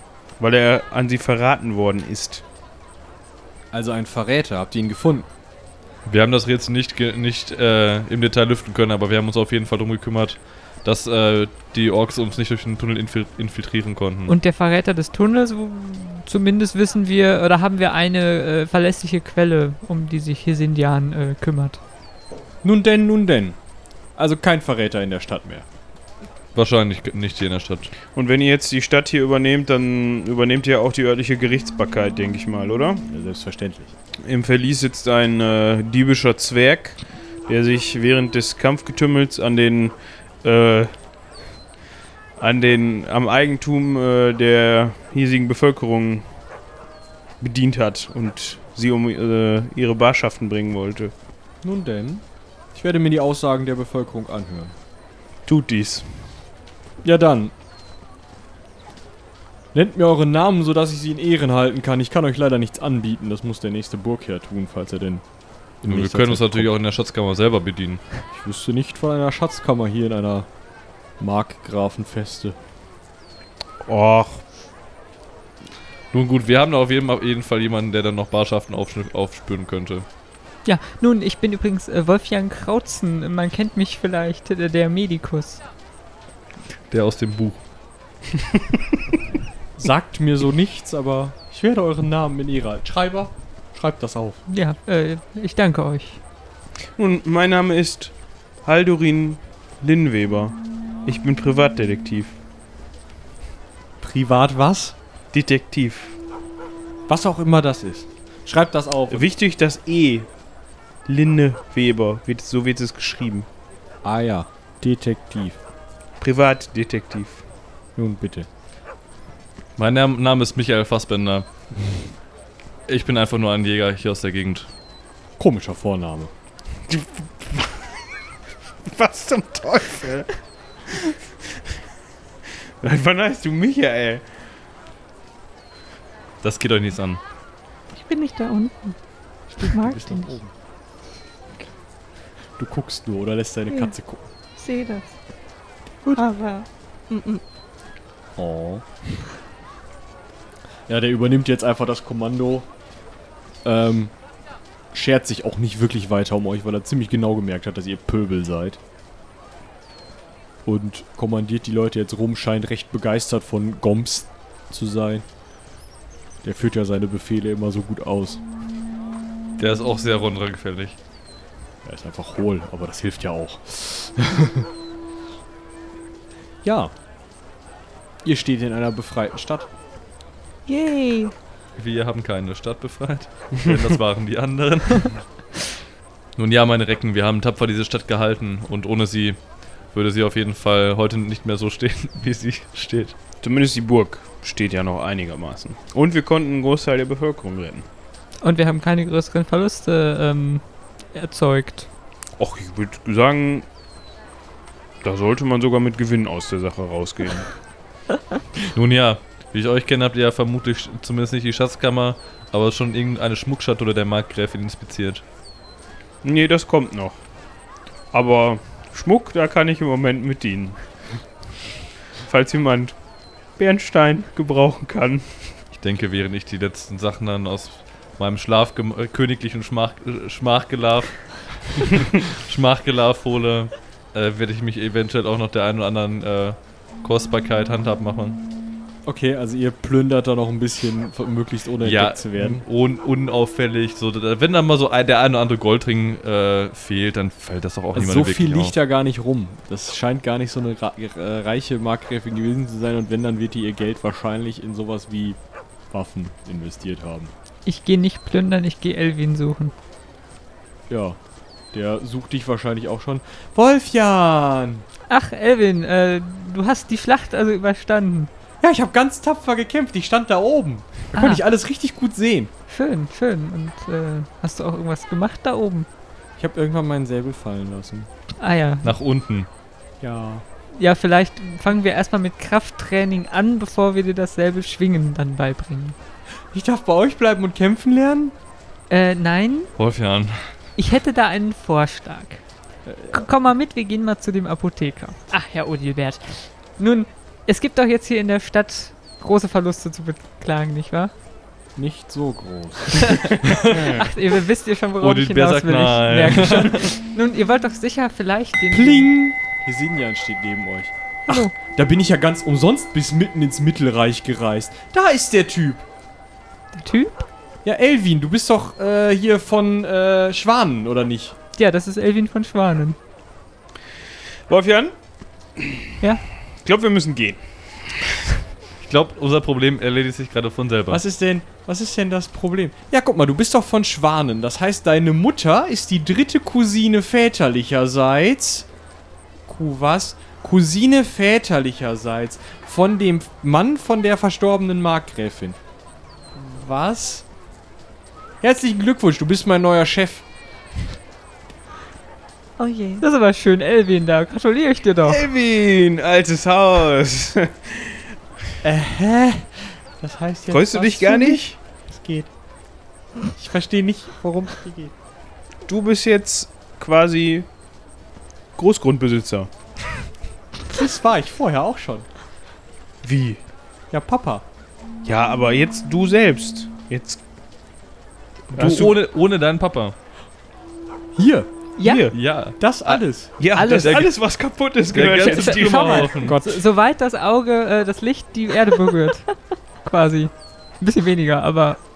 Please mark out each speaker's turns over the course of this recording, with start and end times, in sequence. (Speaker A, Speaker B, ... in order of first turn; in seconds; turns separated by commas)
Speaker A: 0.4-2.4, Speaker B: 3.7-5.3, Speaker C: 6.0-14.3, Speaker D: 14.3-21.8, Speaker B: 22.6-23.6, Speaker B: 24.1-25.6, Speaker C: 26.5-27.9, Speaker A: 28.1-33.0, Speaker B: 33.1-33.9, Speaker A: 34.2-41.0, Speaker A: 42.4-46.2, Speaker A: 47.4-51.1, Speaker B: 51.6-54.8, Speaker A: 55.5-56.2, Speaker B: 57.0-57.5, Speaker B: 59.7-65.2, Speaker B: 65.8-66.7, Speaker C: 65.8-68.0, Speaker B: 68.3-70.5, Speaker B: 71.2-72.6, Speaker A: 73.8-74.4, Speaker C: 76.1-80.0, Speaker D: 80.6-85.6, Speaker C: 86.9-87.6, Speaker B: 89.8-94.4, Speaker D: 94.5-96.2, Speaker A: 97.0-102.4, Speaker B: 104.0-105.0, Speaker A: 105.3-106.2, Speaker B: 107.1-109.3, Speaker A: 109.1-110.3, Speaker A: 111.0-113.5, Speaker B: 114.0-115.6, Speaker A: 116.2-117.4, Speaker B: 118.0-118.5, Speaker C: 119.8-121.5, Speaker C: 122.9-124.7, Speaker B: 125.4-126.3, Speaker A: 126.9-127.8, Speaker A: 128.8-130.3, Speaker A: 130.9-131.1, Speaker A: 132.8-134.3, Speaker C: 136.4-137.2, Speaker E: 137.9-139.0, Speaker B: 139.5-140.5, Speaker E: 139.6-140.3, Speaker B: 142.6-144.2, Speaker E: 143.7-143.9, Speaker E: 144.6-145.2, Speaker E: 146.1-147.4, Speaker B: 148.3-148.9, Speaker B: 150.9-152.7, Speaker B: 153.6-154.1, Speaker B: 154.9-158.8, Speaker B: 160.6-165.2, Speaker B: 166.4-168.4, Speaker C: 169.6-171.0, Speaker B: 171.8-174.7, Speaker B: 176.6-176.9, Speaker B: 178.2-179.7, Speaker E: 180.7-181.3, Speaker C: 181.8-185.2, Speaker C: 186.3-189.4, Speaker C: 189.9-193.1, Speaker A: 193.4-197.9, Speaker D: 198.4-201.9, Speaker A: 202.4-203.7, Speaker A: 205.0-207.5, Speaker C: 208.6-215.2, Speaker A: 216.2-217.2, Speaker A: 218.1-220.8, Speaker A: 222.2-222.9, Speaker A: 223.6-225.6, Speaker C: 225.7-238.4, Speaker B: 239.1-242.6, Speaker C: 241.8-248.7, Speaker B: 247.9-255.4, Speaker B: 255.9-257.3, Speaker D: 257.6-259.7, Speaker B: 260.9-261.2, Speaker B: 261.7-264.9, Speaker D: 265.1-268.3, Speaker B: 268.6-272.5, Speaker D: 271.1-271.4, Speaker D: 272.7-275.9, Speaker B: 276.4-278.1, Speaker D: 278.4-278.9, Speaker C: 278.8-279.5, Speaker B: 280.0-280.4, Speaker D: 280.7-285.9, Speaker B: 286.5-288.3, Speaker D: 288.9-289.7, Speaker C: 289.8-290.5, Speaker D: 290.8-292.4, Speaker B: 292.9-293.2, Speaker D: 293.1-301.1, Speaker B: 301.8-304.0, Speaker D: 303.1-309.1, Speaker C: 305.0-306.9, Speaker B: 306.4-306.7, Speaker B: 308.7-315.8, Speaker D: 311.3-311.5, Speaker D: 316.7-317.2, Speaker B: 317.6-321.4, Speaker D: 321.6-323.0, Speaker A: 324.5-324.9, Speaker A: 326.6-328.1, Speaker C: 328.8-331.0, Speaker B: 330.9-338.7, Speaker B: 339.5-345.6, Speaker B: 346.3-347.2, Speaker B: 348.4-350.2, Speaker E: 352.6-353.0, Speaker D: 353.0-355.2, Speaker A: 355.1-358.0, Speaker B: 358.6-362.3, Speaker A: 360.5-361.6, Speaker B: 363.4-364.9, Speaker A: 365.6-367.5, Speaker A: 368.6-369.5, Speaker B: 370.7-372.1, Speaker A: 373.0-373.4, Speaker B: 373.9-374.4, Speaker A: 375.0-377.2, Speaker C: 378.5-379.9, Speaker A: 378.5-379.0, Speaker B: 381.1-381.5, Speaker D: 381.8-382.1, Speaker A: 381.8-382.1, Speaker C: 382.1-384.2, Speaker B: 382.6-383.3, Speaker A: 383.4-386.2, Speaker D: 383.5-384.0, Speaker C: 384.8-386.4, Speaker D: 385.0-389.3, Speaker B: 386.2-386.6, Speaker D: 389.8-391.8